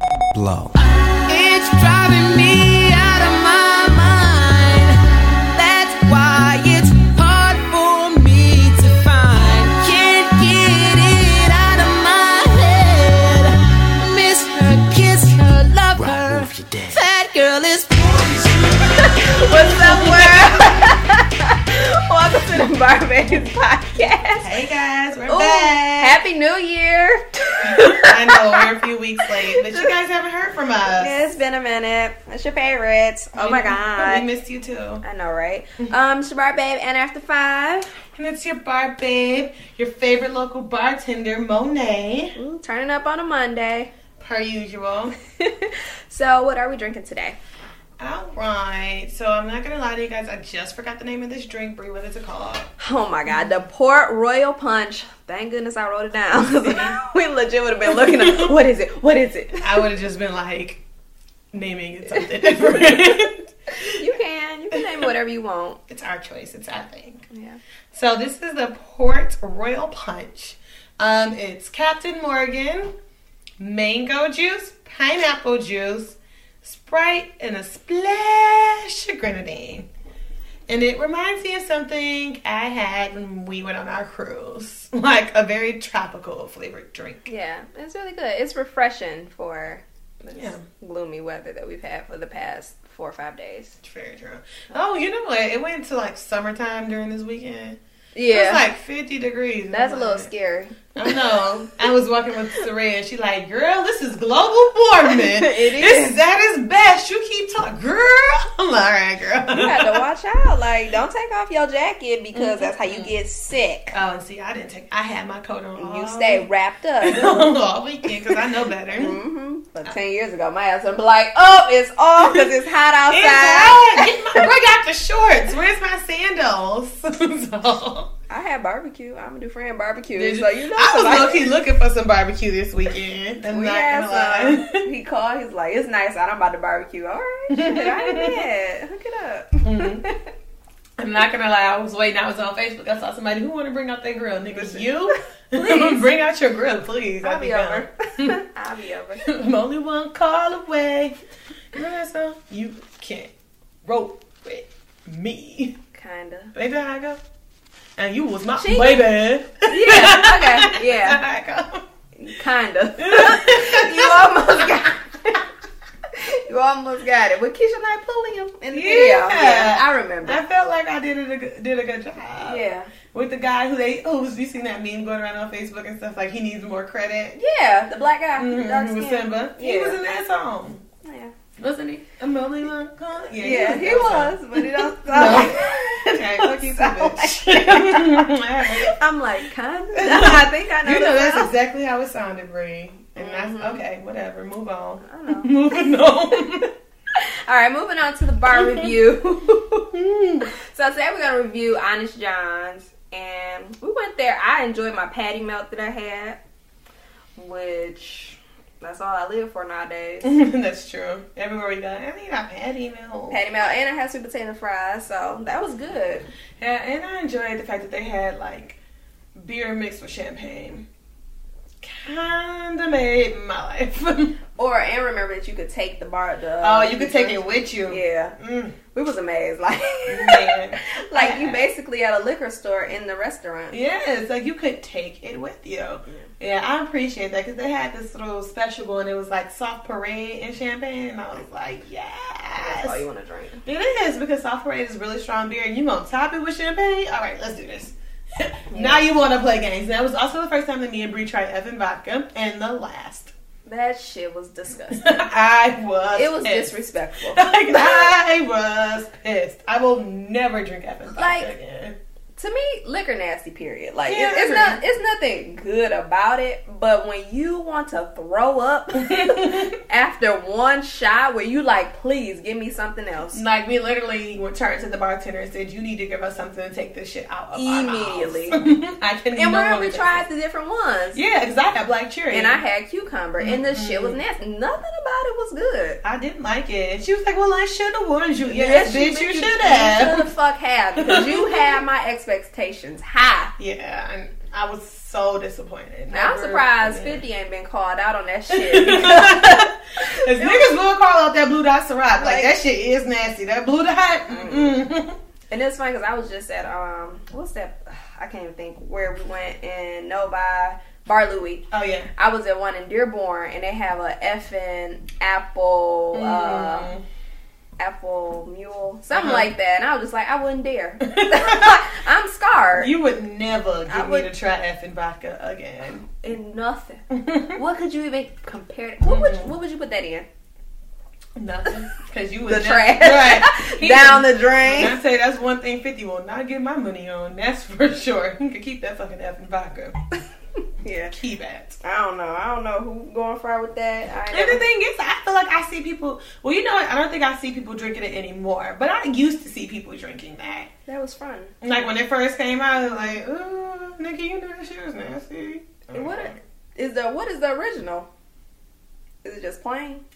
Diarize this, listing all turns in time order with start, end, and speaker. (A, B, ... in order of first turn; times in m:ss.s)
0:00.7-0:05.0 A
0:05.5-0:20.6 A
0:19.4-0:24.5 B
0:19.5-0:20.8 C
0:24.4-0:26.2 C
0:25.3-0:28.7 B
0:27.6-0:31.2 C
0:29.2-0:29.9 B
0:30.9-0:34.2 B
0:33.4-0:35.0 C
0:35.0-0:37.9 B
0:38.1-0:42.4 C
0:42.4-0:43.9 B
0:44.2-0:45.1 C
0:45.4-0:47.4 B
0:48.0-0:52.7 C
0:52.8-0:59.9 B
0:53.3-0:53.5 C
0:56.6-0:57.0 C
0:57.9-0:58.5 C
0:59.6-1:00.8 C
1:01.5-1:04.1 C
1:02.2-1:03.0 B
1:03.7-1:05.8 B
1:05.9-1:07.3 C
1:07.3-1:07.6 B
1:07.9-1:12.9 C
1:13.6-1:19.9 C
1:20.7-1:27.3 C
1:27.3-1:33.8 B
1:30.3-1:30.6 C
1:33.8-1:40.3 C
1:38.2-1:38.6 B
1:39.7-1:41.5 B
1:41.0-1:50.0 C
1:45.1-1:46.2 B
1:49.5-1:54.0 B
1:52.3-1:53.1 C
1:53.9-1:56.5 C
1:55.8-1:57.5 B
1:57.0-1:59.2 C
1:58.1-1:58.4 B
1:59.0-2:04.4 B
2:03.1-2:08.1 C
2:08.3-2:11.5 B
2:10.2-2:14.8 C
2:13.5-2:20.3 B
2:17.5-2:18.4 C
2:19.6-2:20.1 C
2:21.0-2:28.4 C
2:24.5-2:26.0 B
2:27.2-2:29.2 B
2:29.2-2:31.2 C
2:31.7-2:33.3 C
2:33.8-2:35.8 C
2:35.9-2:36.5 B
2:36.5-2:37.2 C
2:38.0-2:41.8 C
2:38.6-2:39.1 B
2:39.7-2:41.2 B
2:42.2-2:45.4 B
2:43.0-2:44.9 C
2:46.1-2:50.4 B
2:48.7-2:57.4 C
2:52.4-2:52.9 B
2:57.4-3:00.0 B
2:58.4-3:00.8 C
3:01.0-3:01.3 B
3:01.6-3:08.9 C
3:03.4-3:11.5 B
3:10.0-3:16.7 C
3:13.2-3:13.8 B
3:15.0-3:15.6 B
3:17.1-3:19.9 B
3:18.5-3:18.9 C
3:19.9-3:20.5 C
3:20.4-3:26.4 B
3:27.4-3:30.3 B
3:30.2-3:33.4 C
3:33.3-3:36.3 B
3:36.6-3:38.8 C
3:39.4-3:40.8 C
3:41.8-3:44.4 C
3:44.6-3:48.3 B
3:46.6-3:48.8 C
3:48.9-3:53.8 B
3:50.1-3:51.6 C
3:53.7-4:03.0 C
4:02.6-4:03.6 B
4:03.6-4:13.3 C
4:08.7-4:09.0 B
4:13.7-4:15.1 B
4:14.9-4:16.7 C
4:16.2-4:18.1 B
4:17.3-4:22.0 C
4:21.2-4:21.5 B
4:22.4-4:33.4 B
4:24.1-4:24.8 C
4:29.0-4:29.7 C
4:33.3-4:40.2 C
4:37.5-4:38.6 B
4:39.4-4:41.2 B
4:41.1-4:42.6 C
4:42.3-4:46.0 B
4:43.4-4:44.2 C
4:46.0-4:50.3 C
4:48.4-4:53.5 B
4:51.0-4:51.8 C
4:53.6-4:57.2 C
4:56.1-5:00.7 B
4:58.5-5:05.2 C
5:02.2-5:02.5 B
5:04.3-5:04.8 B
5:05.5-5:16.9 B
5:11.7-5:12.1 C
5:16.1-5:17.0 C
5:17.8-5:22.9 B
5:19.1-5:19.5 C
5:21.0-5:21.8 C
5:22.8-5:26.0 C
5:23.9-5:24.3 B
5:26.0-5:30.3 B
5:27.1-5:27.6 C
5:29.0-5:29.5 C
5:31.4-5:40.0 C
5:32.4-5:35.0 B
5:40.8-5:41.1 B
5:41.1-5:41.8 C
5:41.8-5:44.6 B
5:44.3-5:50.7 C
5:50.9-5:51.5 B
5:51.6-5:56.4 C
5:52.8-5:53.0 B
5:55.9-5:58.1 B
5:59.2-6:00.0 B